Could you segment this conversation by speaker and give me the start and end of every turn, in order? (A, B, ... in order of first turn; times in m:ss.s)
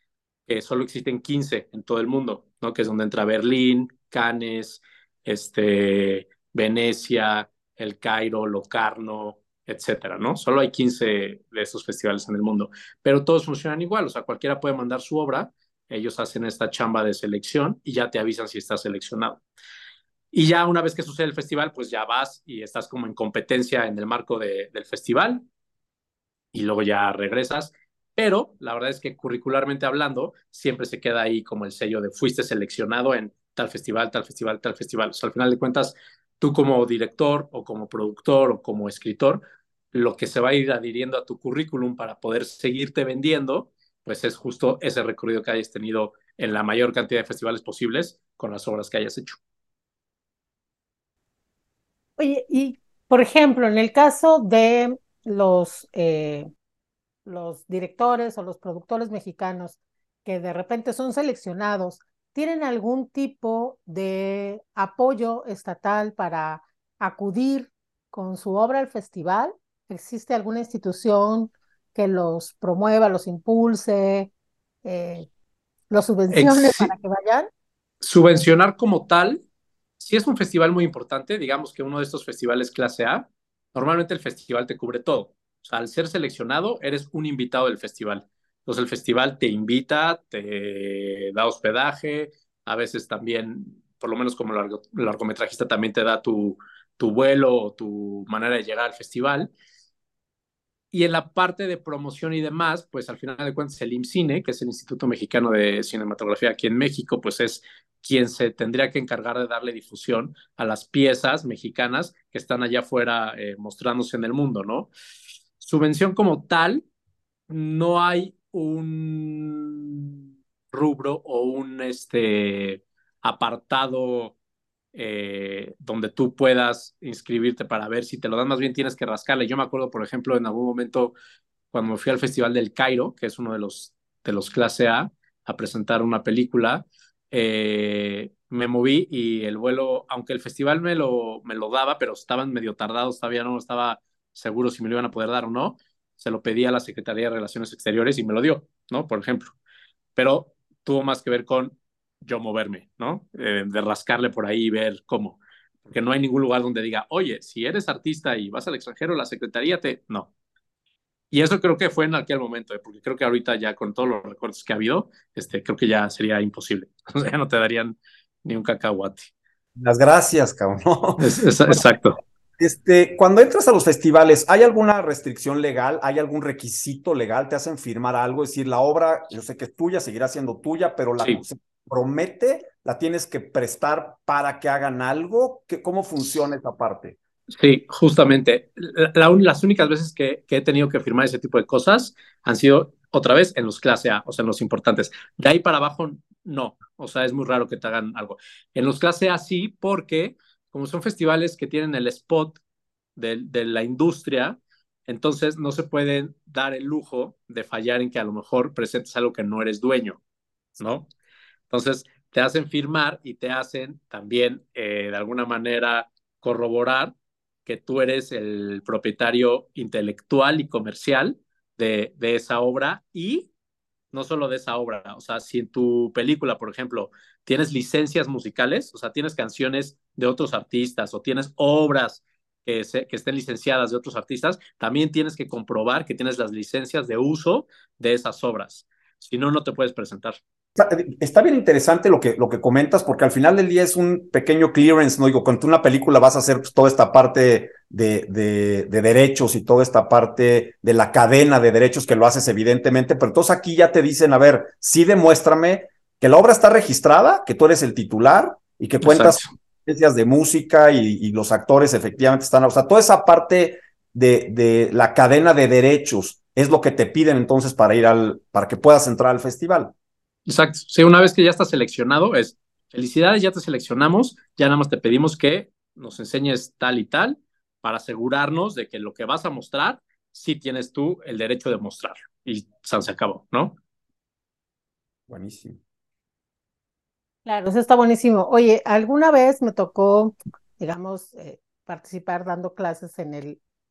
0:00.5-0:19.4 A
0:20.3-0:25.4 A
0:26.5-0:49.4 A
0:52.2-0:56.5 B
0:57.2-1:14.3 B
1:14.8-1:15.3 B
1:15.9-1:17.5 B
1:16.3-1:16.9 A
1:18.0-1:19.4 A
1:20.0-1:39.5 A
1:40.9-1:54.9 A
1:55.6-1:56.8 A
1:57.5-2:00.1 A
2:00.7-2:04.4 A
2:04.9-2:11.2 A
2:11.7-2:29.5 A
2:30.2-2:40.3 A
2:41.3-2:49.3 A
2:49.8-2:51.8 C
2:51.2-2:52.2 A
2:52.6-3:07.2 C
3:07.5-3:22.6 A
3:23.2-3:30.2 A
3:30.8-3:31.1 A
3:31.7-3:37.1 A
3:37.6-3:43.5 A
3:44.1-4:00.4 A
4:00.8-4:29.9 C
4:19.0-4:19.5 A
4:30.5-4:43.8 A
4:45.3-4:45.8 C
4:47.4-4:53.6 B